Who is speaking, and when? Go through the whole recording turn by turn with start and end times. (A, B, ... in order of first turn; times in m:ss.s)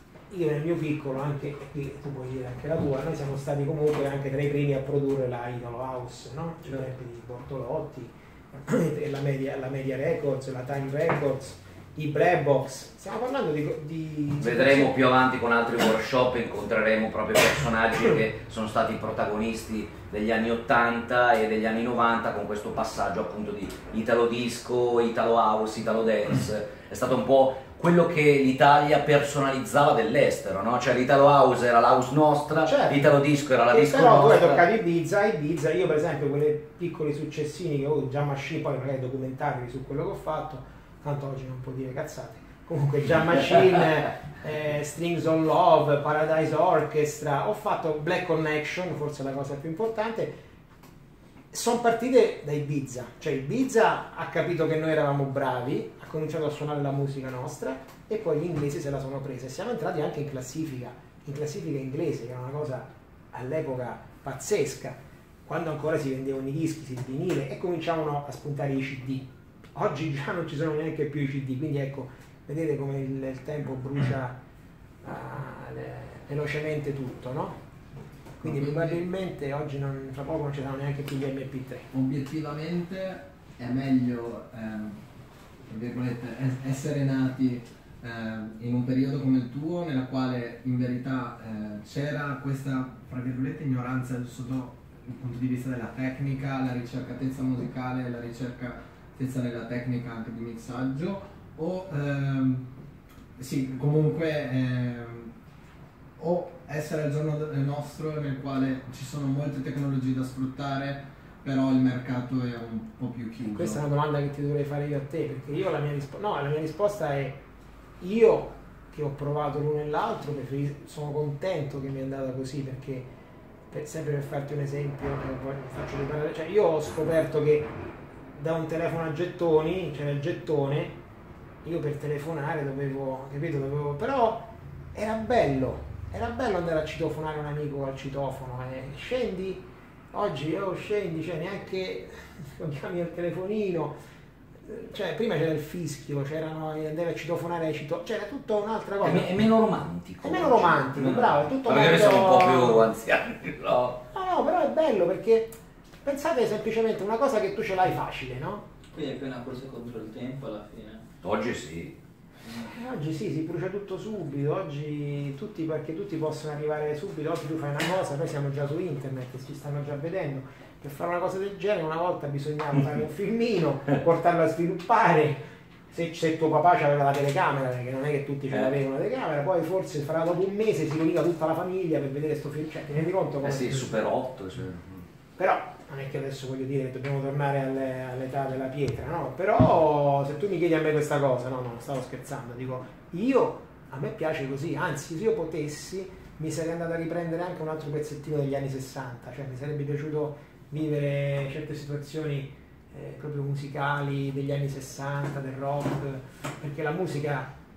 0:00.3-0:15.0 A
0:14.4-0:34.6 B
0:32.6-0:33.0 A
0:33.7-0:50.4 A
0:51.5-1:14.4 A
1:15.0-1:17.6 A
1:18.4-1:21.9 A
1:18.4-1:19.0 C
1:21.9-1:25.0 C
1:25.7-1:42.6 C
1:43.4-1:45.3 C
1:46.2-1:53.8 C
1:53.5-1:57.4 A
1:58.0-2:03.1 A
2:03.7-2:07.7 A
2:08.3-2:11.0 A
2:11.6-2:24.0 A
2:24.6-2:29.4 A
2:29.0-2:34.0 B
2:30.2-2:32.8 A
2:34.1-2:38.6 A
2:38.9-2:41.0 D
2:41.2-2:42.0 B
2:42.6-3:04.1 A
3:03.4-3:05.0 B
3:05.4-3:27.5 A